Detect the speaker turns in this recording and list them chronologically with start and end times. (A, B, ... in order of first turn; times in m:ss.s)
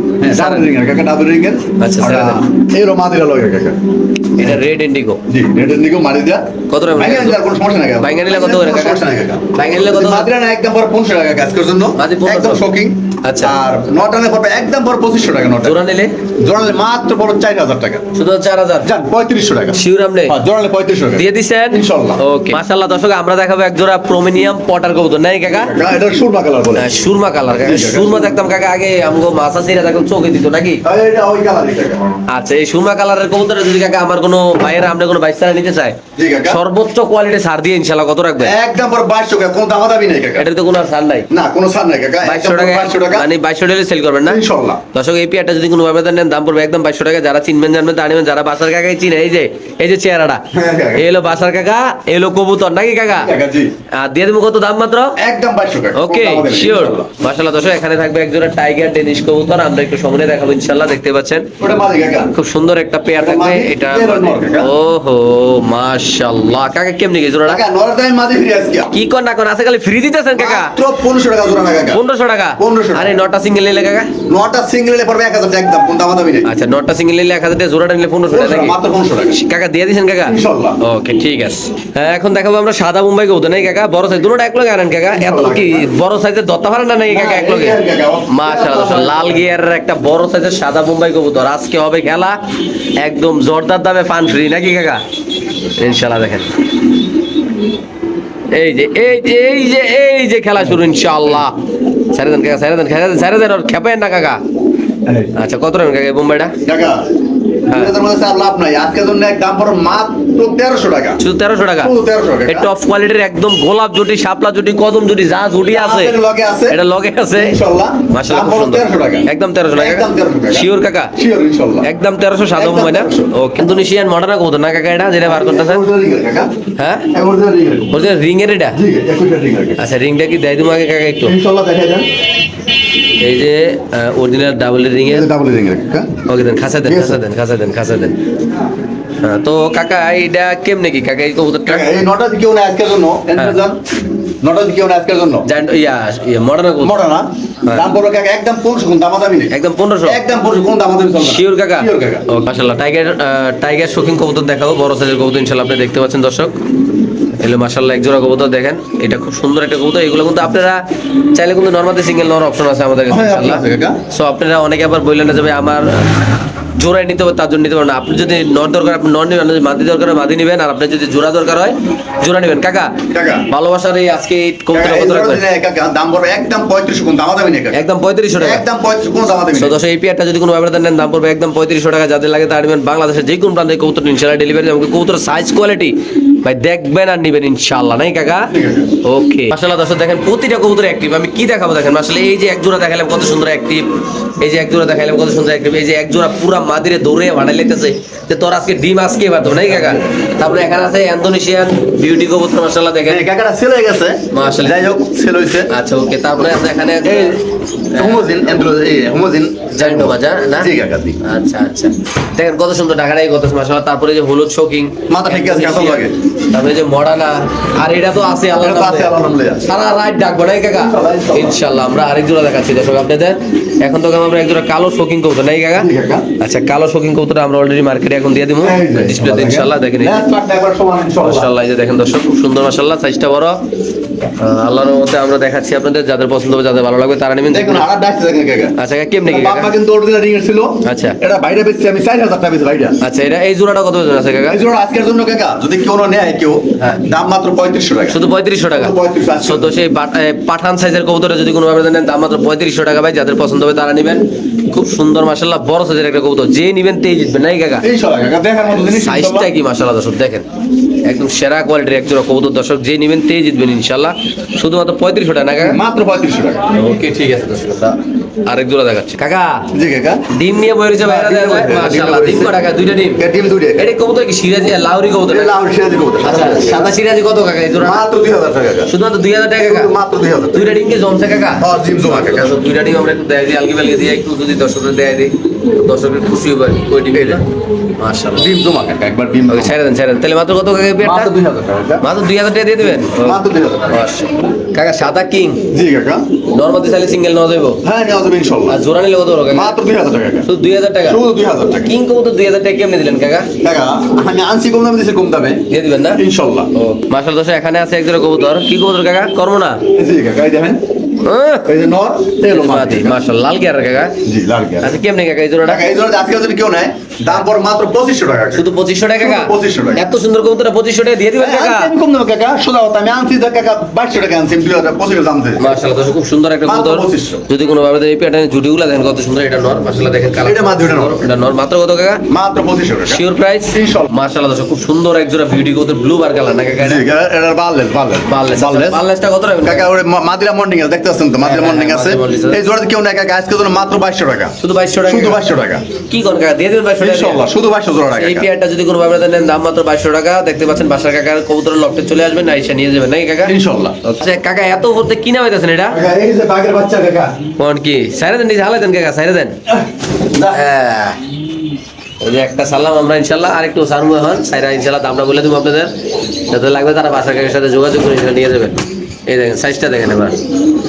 0:00.2-0:03.8 A
0:00.3-0:00.7 B
0:01.8-0:02.4 B
0:04.4-0:05.2 B
0:05.3-0:06.4 A
0:06.7-0:07.4 B
0:07.0-0:15.8 A
0:08.0-0:09.0 B
0:09.5-0:10.3 B
0:12.0-0:12.6 B
0:13.2-0:13.6 B
0:15.6-0:16.1 B
0:16.4-0:18.0 A
0:18.2-0:18.9 B
0:18.8-0:22.2 A
0:19.7-0:20.4 B
0:21.2-0:25.7 B
0:25.5-0:26.9 A
0:26.8-0:30.8 B
0:27.6-0:28.4 A
0:30.8-0:32.0 A
0:32.3-0:38.5 B
0:36.2-0:36.6 A
0:38.4-0:40.5 A
0:40.4-0:41.3 B
0:41.3-0:43.3 A
0:42.2-0:44.4 B
0:44.3-0:44.8 A
0:44.9-0:50.4 B
0:50.5-0:51.1 A
0:51.0-0:53.3 B
0:53.1-0:53.7 A
0:53.9-0:55.2 B
0:55.2-0:57.1 A
0:56.0-1:01.5 B
1:01.6-1:02.3 A
1:02.3-1:07.6 B
1:03.2-1:04.7 A
1:07.5-1:08.9 A
1:08.9-1:10.7 B
1:10.4-1:12.0 A
1:11.9-1:14.1 B
1:12.6-1:13.2 A
1:14.3-1:16.5 A
1:16.4-1:18.8 B
1:18.3-1:19.4 A
1:19.3-1:27.8 B
1:20.3-1:20.8 A
1:25.1-1:25.9 A
1:27.1-1:29.4 A
1:28.3-1:32.4 B
1:33.0-1:35.0 B
1:35.8-1:36.5 B
1:38.5-1:41.6 B
1:42.1-1:44.4 B
1:45.0-1:45.3 A
1:45.4-1:46.5 B
1:46.7-1:47.1 A
1:47.7-1:51.2 A
1:51.2-1:51.9 B
1:51.8-1:52.7 A
1:52.5-1:56.2 B
1:55.7-1:56.8 A
1:56.7-2:01.1 B
1:57.3-2:01.9 A
2:01.8-2:05.8 B
2:02.6-2:03.8 A
2:05.2-2:06.5 A
2:06.8-2:07.1 B
2:07.1-2:08.1 A
2:07.9-2:08.8 B
2:08.7-2:09.8 A
2:09.8-2:11.4 B
2:11.2-2:12.1 A
2:13.2-2:15.3 B
2:15.0-2:16.1 A
2:16.3-2:18.2 B
2:16.8-2:17.2 A
2:19.2-2:21.9 B
2:21.7-2:23.8 A
2:24.4-2:25.5 A
2:25.5-2:27.0 B
2:26.8-2:29.5 A
2:29.5-2:30.2 B
2:30.1-2:32.3 A
2:31.2-2:36.6 B
2:37.4-2:40.8 B
2:41.3-2:46.2 B
2:43.1-2:44.0 A
2:46.8-2:55.4 B
2:53.1-2:53.5 A
2:54.7-2:57.8 A
2:57.7-2:58.6 B
2:58.4-2:59.8 A
2:59.5-3:08.5 B
3:08.5-3:08.9 A
3:09.0-3:13.9 B
3:14.4-3:23.2 B
3:23.1-3:25.7 A
3:24.3-3:24.8 B
3:25.7-3:27.4 B
3:27.0-3:27.4 A
3:27.9-3:28.4 B
3:27.9-3:31.2 A
3:29.8-3:50.2 B
3:35.1-3:36.2 A
3:38.5-3:39.7 A
3:40.7-3:41.6 A
3:45.8-3:46.3 A
3:48.6-3:51.5 A
3:51.2-3:53.6 B
3:54.4-3:57.9 B
3:57.5-4:03.0 A
3:58.8-3:59.7 B
4:00.8-4:01.2 B
4:03.0-4:04.6 B
4:04.5-4:09.8 A
4:06.8-4:07.0 B
4:08.1-4:17.8 B
4:17.8-4:19.5 A
4:18.9-4:20.5 B
4:21.0-4:25.8 B
4:25.6-4:26.6 A
4:26.7-4:29.6 B
4:29.7-4:30.2 A
4:30.3-4:33.2 B
4:31.0-4:32.6 A
4:33.2-4:33.9 A
4:33.8-4:35.6 B
4:35.3-4:36.9 A
4:36.2-4:38.0 B
4:37.8-4:38.9 A
4:38.9-4:39.9 B
4:39.6-4:40.8 A
4:40.5-4:47.4 B
4:41.6-4:42.5 A
4:47.1-4:47.4 A
4:48.0-4:48.5 B
4:48.4-4:49.8 A
4:49.5-4:51.4 B
4:51.0-4:52.1 A
4:52.0-4:55.6 B
4:53.2-4:54.3 A
4:55.7-4:56.3 A
4:56.5-4:57.8 B
4:57.8-4:58.8 A
4:58.7-4:59.8 B
4:59.5-5:00.5 A
5:00.5-5:01.2 B
5:01.1-5:02.0 A
5:01.8-5:03.5 B
5:03.6-5:05.6 A
5:05.7-5:06.2 B
5:06.2-5:06.7 A
5:06.8-5:09.8 B
5:10.0-5:10.8 A
5:11.2-5:11.7 B
5:11.7-5:13.2 A
5:12.5-5:14.2 B
5:14.2-5:15.0 A
5:14.8-5:15.9 B
5:15.6-5:20.1 A
5:18.5-5:21.9 B
5:21.4-5:25.8 A
5:25.6-5:32.2 B
5:26.6-5:27.4 A
5:30.4-5:31.3 A
5:32.3-5:34.1 A
5:33.1-5:37.1 B
5:36.8-5:39.0 A
5:38.3-5:39.9 B
5:39.6-5:44.5 A
5:41.4-5:42.6 B
5:44.6-5:45.4 B
5:45.1-5:45.8 A
5:46.1-5:47.4 B
5:47.0-5:48.5 A
5:48.1-5:56.0 B
5:53.5-5:54.0 A
5:55.9-5:57.3 A
5:57.6-5:59.6 B
5:59.7-6:00.6 A
6:00.5-6:01.2 B
6:02.2-6:05.9 B
6:06.5-6:10.4 B